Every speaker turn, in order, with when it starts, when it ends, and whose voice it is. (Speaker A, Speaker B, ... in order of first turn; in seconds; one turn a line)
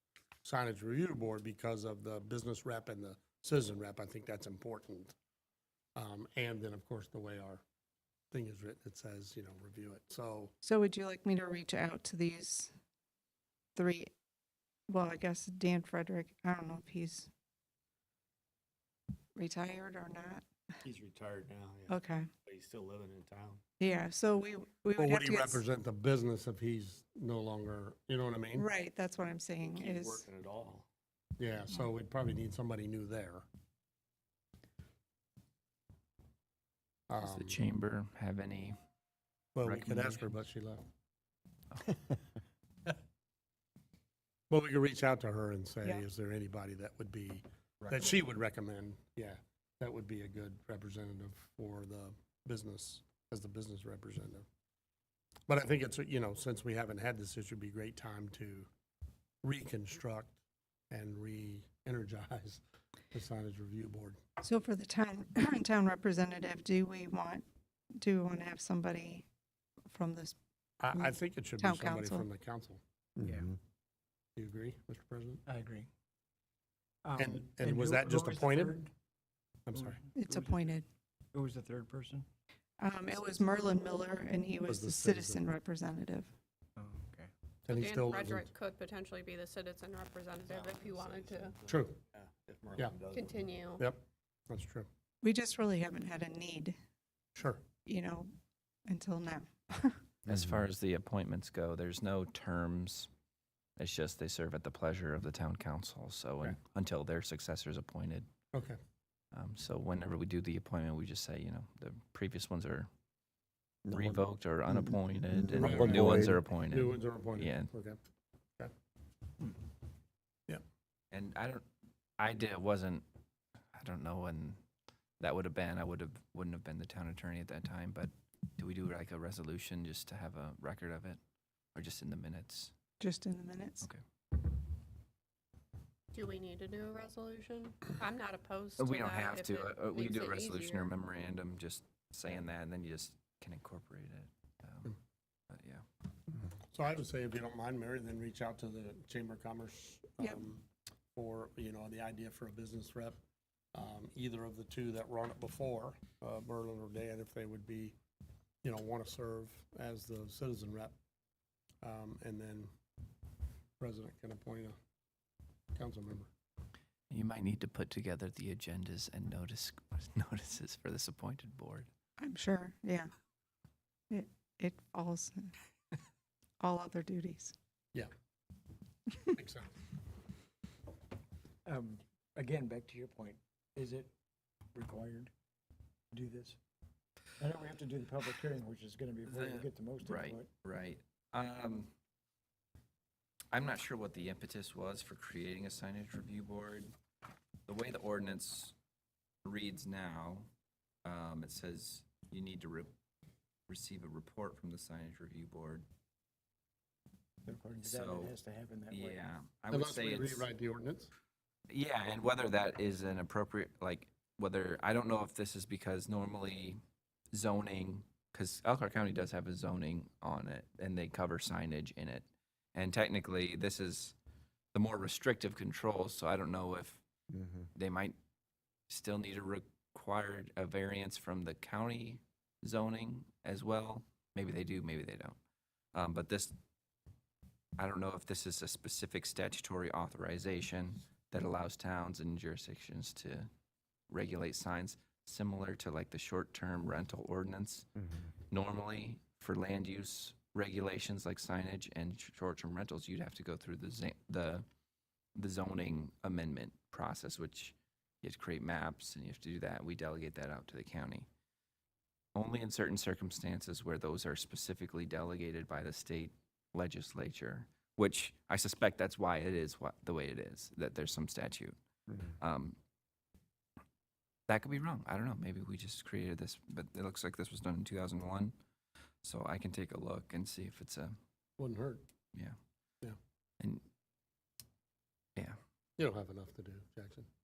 Speaker A: 0.4-5.2
Speaker A: 6.0-7.6
Speaker A: 8.3-10.5
Speaker B: 10.6-12.7
Speaker B: 13.8-14.1
Speaker B: 14.9-17.3
Speaker B: 19.4-20.4
Speaker C: 20.8-23.6
Speaker B: 21.9-22.3
Speaker B: 23.8-25.6
Speaker A: 25.0-28.7
Speaker B: 28.6-30.3
Speaker C: 29.7-30.9
Speaker A: 31.4-33.5
Speaker A: 37.1-37.6
Speaker D: 37.2-38.8
Speaker A: 39.5-40.8
Speaker D: 39.6-40.3
Speaker A: 44.5-54.5
Speaker A: 55.5-58.7
Speaker A: 59.4-60.4
Speaker A: 60.9-64.2
Speaker B: 64.4-67.4
Speaker B: 68.0-69.3
Speaker B: 69.9-70.4
Speaker A: 70.8-72.8
Speaker B: 70.9-72.3
Speaker E: 73.2-73.5
Speaker A: 74.4-75.4
Speaker E: 75.5-75.9
Speaker E: 77.0-78.9
Speaker A: 77.2-78.8
Speaker A: 79.7-80.0
Speaker E: 79.7-80.7
Speaker B: 80.2-80.8
Speaker E: 81.3-82.3
Speaker B: 82.8-86.3
Speaker A: 84.7-85.4
Speaker E: 86.8-87.3
Speaker A: 87.7-88.5
Speaker F: 87.7-91.5
Speaker C: 90.4-93.6
Speaker A: 91.7-92.0
Speaker F: 93.1-93.9
Speaker A: 93.8-94.9
Speaker B: 95.2-96.8
Speaker A: 97.4-97.6
Speaker B: 97.9-98.3
Speaker B: 98.9-100.0
Speaker D: 100.2-103.1
Speaker D: 103.8-108.3
Speaker A: 108.5-108.8
Speaker D: 109.3-112.9
Speaker D: 113.9-117.7
Speaker A: 115.5-118.0
Speaker D: 121.1-121.6
Speaker D: 122.2-123.0
Speaker D: 123.8-124.6
Speaker D: 125.2-131.2
Speaker D: 131.8-132.7
Speaker B: 133.0-133.9
Speaker F: 136.1-140.9
Speaker D: 138.8-144.9
Speaker D: 145.5-145.8
Speaker A: 146.7-153.2
Speaker A: 153.7-157.9
Speaker A: 158.6-160.9
Speaker A: 161.8-162.7
Speaker A: 163.8-164.8
Speaker A: 165.8-166.3
Speaker D: 167.1-171.9
Speaker B: 172.2-173.1
Speaker B: 174.1-175.5
Speaker B: 176.6-177.5
Speaker A: 179.3-179.7
Speaker E: 181.7-184.1
Speaker E: 184.7-185.3
Speaker E: 186.1-186.6
Speaker E: 187.4-190.5
Speaker D: 189.3-191.9
Speaker D: 193.5-196.9
Speaker D: 197.7-198.7
Speaker D: 199.4-200.5
Speaker D: 201.1-202.9
Speaker D: 203.7-205.8
Speaker E: 207.4-209.2
Speaker D: 207.8-208.3
Speaker D: 208.9-210.5
Speaker A: 209.7-211.1
Speaker D: 211.7-216.8
Speaker D: 217.3-224.2
Speaker D: 224.7-227.0
Speaker D: 227.8-228.2
Speaker D: 228.9-235.4
Speaker D: 235.9-236.5
Speaker D: 237.8-243.5
Speaker D: 244.1-247.9
Speaker D: 248.5-254.6
Speaker D: 255.4-261.3
Speaker D: 262.4-271.8
Speaker D: 272.4-272.8
Speaker D: 274.5-278.5
Speaker D: 279.2-281.1
Speaker A: 281.6-282.0
Speaker A: 286.0-287.3